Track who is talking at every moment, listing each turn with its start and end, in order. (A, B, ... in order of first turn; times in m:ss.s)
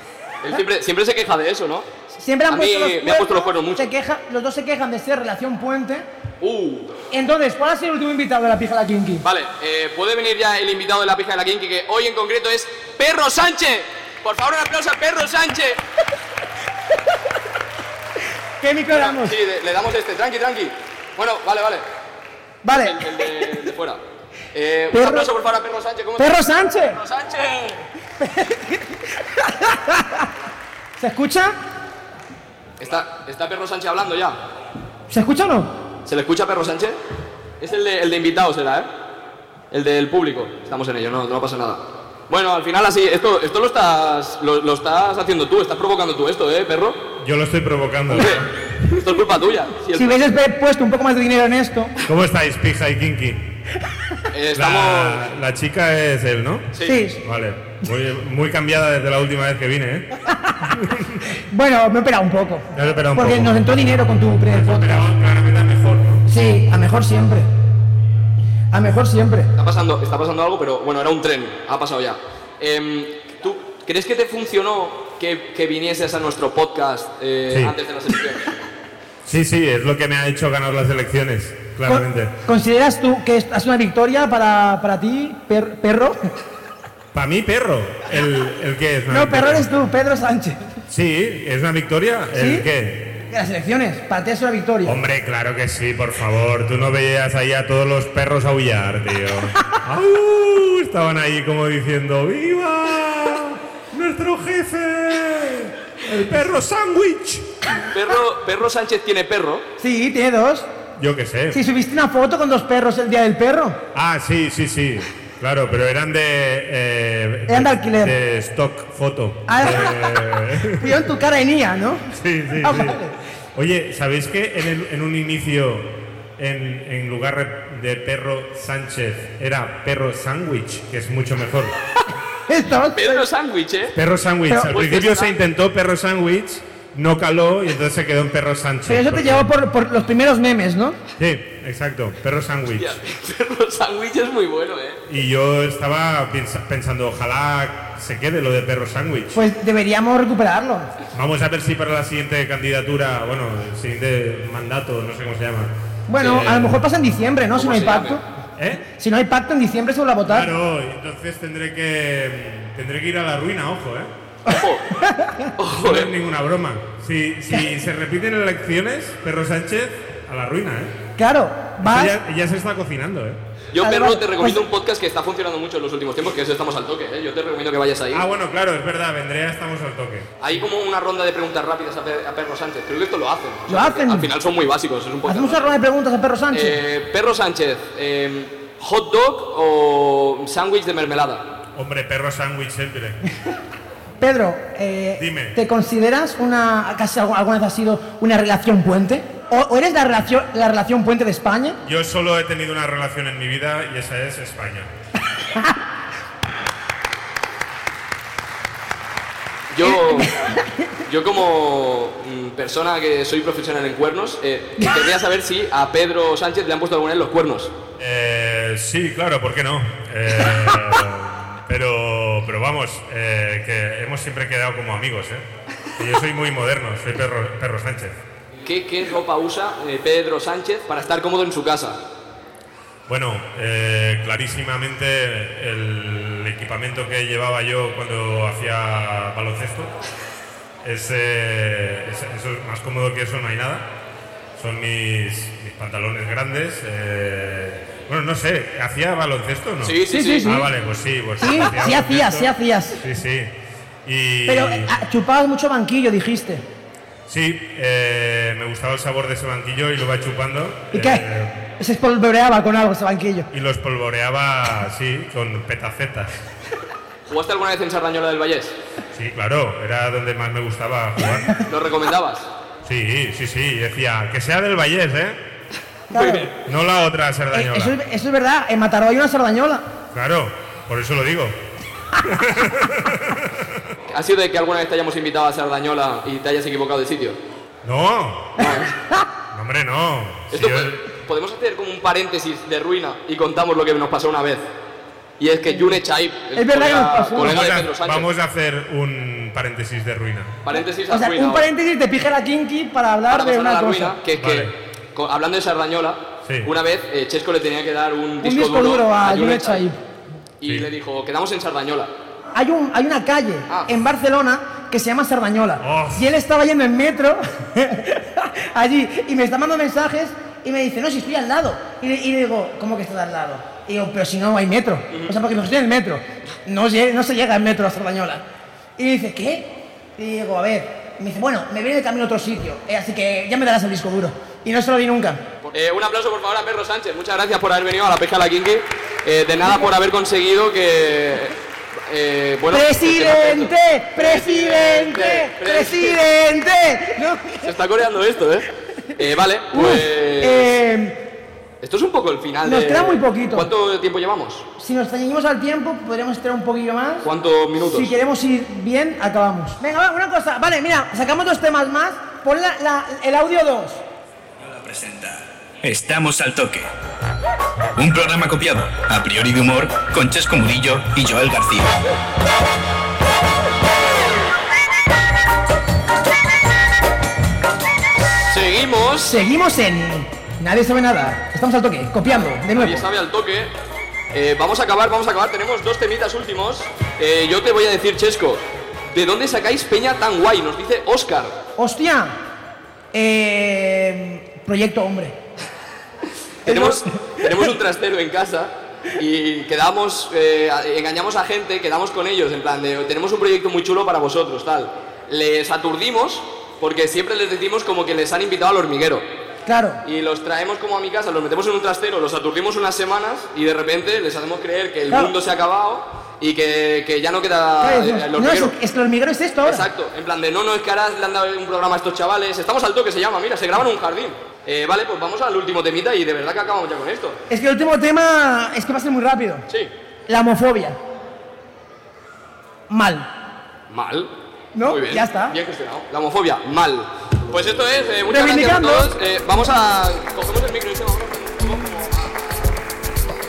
0:00.4-0:01.9 A
0:02.1-0:06.1 B
0:02.5-0:03.9 A
0:06.4-0:07.0 A
0:07.1-0:09.2 B
0:09.2-0:15.8 A
0:18.6-0:19.4 B
0:18.9-0:21.8 A
0:22.6-0:23.5 B
0:22.7-0:24.0 A
0:24.5-0:27.8 A
0:24.9-0:25.3 B
0:26.2-0:27.0 B
0:28.2-0:30.3 B
0:31.0-0:31.6 B
0:32.8-0:34.4 A
0:35.1-0:35.8 B
0:36.0-0:37.0 A
0:37.6-0:38.9 A
0:39.7-0:47.0 A
0:47.2-0:48.4 C
0:48.1-0:50.3 A
0:49.9-0:51.9 B
0:52.0-0:53.5 C
0:54.3-0:55.3 A
0:54.5-1:00.1 C
0:56.7-0:57.0 A
0:56.8-0:57.2 B
1:00.2-1:00.6 B
1:00.6-1:01.2 C
1:01.3-1:05.1 B
1:02.7-1:03.7 C
1:04.5-1:06.2 C
1:06.2-1:07.5 B
1:08.7-1:09.5 B
1:09.6-1:18.5 A
1:17.5-1:17.8 C
1:19.2-1:22.3 C
1:21.8-1:26.3 B
1:27.1-1:29.7 C
1:29.1-1:30.8 B
1:30.9-1:33.3 C
1:32.3-1:32.7 B
1:33.3-1:35.0 B
1:34.8-1:47.5 C
1:47.9-1:49.6 A
1:49.8-1:50.7 B
1:51.0-1:51.6 C
1:51.5-1:53.8 B
1:53.9-2:01.0 C
1:57.5-1:58.2 B
1:59.5-2:03.1 B
2:02.1-2:11.7 C
2:12.5-2:13.2 B
2:12.9-2:14.0 A
2:13.9-2:19.5 C
2:14.5-2:15.2 B
2:14.7-2:15.3 A
2:18.9-2:21.0 B
2:21.2-2:22.9 C
2:22.7-2:25.0 A
2:25.1-2:29.4 C
2:29.3-2:30.9 B
2:31.1-2:36.8 C
2:36.1-2:38.2 B
2:36.2-2:36.6 A
2:37.5-2:38.2 A
2:38.6-2:38.8 C
2:38.9-2:40.5 B
2:40.2-2:44.1 C
2:44.5-2:44.9 A
2:44.5-2:45.5 B
2:45.6-2:46.1 A
2:45.7-2:50.9 C
2:47.5-2:47.8 B
2:51.2-2:52.2 B
2:51.8-2:53.4 C
2:53.7-2:58.2 A
2:53.8-2:54.6 B
2:58.1-3:00.4 C
3:00.4-3:05.7 A
3:03.7-3:04.3 B
3:05.2-3:06.8 B
3:06.5-3:11.4 A
3:11.7-3:13.2 C
3:14.2-3:21.8 B
3:15.2-3:15.6 C
3:21.8-3:24.9 C
3:25.4-3:25.8 B
3:29.7-3:30.4 A
3:29.8-3:30.9 B
3:31.0-3:37.7 A
3:38.0-3:45.4 C
3:46.0-3:48.2 C
3:48.6-3:52.0 A
3:53.1-3:59.9 C
4:00.8-4:03.8 C
4:04.6-4:13.5 C
4:09.8-4:10.6 A
4:10.1-4:10.7 B
4:11.4-4:13.0 B
4:14.0-4:14.9 C
4:14.5-4:16.6 B
4:17.3-4:21.7 C
4:20.9-4:23.5 B
4:23.5-4:26.3 C
4:27.3-4:28.7 A
4:29.1-4:31.6 C
4:31.6-4:32.5 A
4:32.8-4:35.4 C
4:36.1-4:36.5 B
4:36.1-4:36.5 A
4:36.6-4:37.9 C
4:37.5-4:39.9 B
4:40.1-4:41.5 C
4:42.2-4:43.5 C
4:44.1-4:47.4 A
4:47.8-4:48.6 C
4:48.6-4:48.9 A
4:48.6-4:49.3 B
4:49.5-4:51.1 C
4:50.5-4:54.7 A
4:55.4-4:58.3 A
4:56.5-4:57.6 B
4:57.4-5:00.6 C
5:00.6-5:01.7 A
5:00.8-5:04.2 B
5:03.3-5:09.8 A
5:04.4-5:04.7 C
5:06.4-5:06.7 C
5:08.4-5:10.0 B
5:10.6-5:12.1 A
5:10.6-5:10.9 C
5:12.5-5:28.4 B
5:15.8-5:16.3 C
5:25.1-5:25.4 A
5:29.0-5:35.4 B
5:35.7-5:46.2 A
5:42.7-5:47.7 B
5:47.6-5:50.8 A
5:49.7-5:51.3 B
5:51.8-5:54.6 A
5:52.6-5:53.7 B
5:54.8-5:57.3 B
5:57.2-5:58.1 A
5:57.8-6:04.0 B
6:04.6-6:06.9 D
6:08.0-6:12.0 D
6:18.5-6:19.4 A
6:19.2-6:23.0 B
6:22.3-6:23.7 A
6:24.3-6:31.5 A
6:31.8-6:32.3 B
6:33.1-6:35.4 B
6:36.6-6:49.2 A
6:36.6-6:37.5 B
6:49.6-6:50.0 B
6:50.0-6:58.7 A
6:55.1-6:55.3 B
6:57.8-6:59.9 B
6:59.6-7:07.4 A
7:07.5-7:09.6 B
7:10.3-7:11.0 B
7:12.9-7:13.3 B
7:13.9-7:14.3 A
7:14.7-7:15.6 B
7:14.8-7:22.8 A
7:18.3-7:19.1 B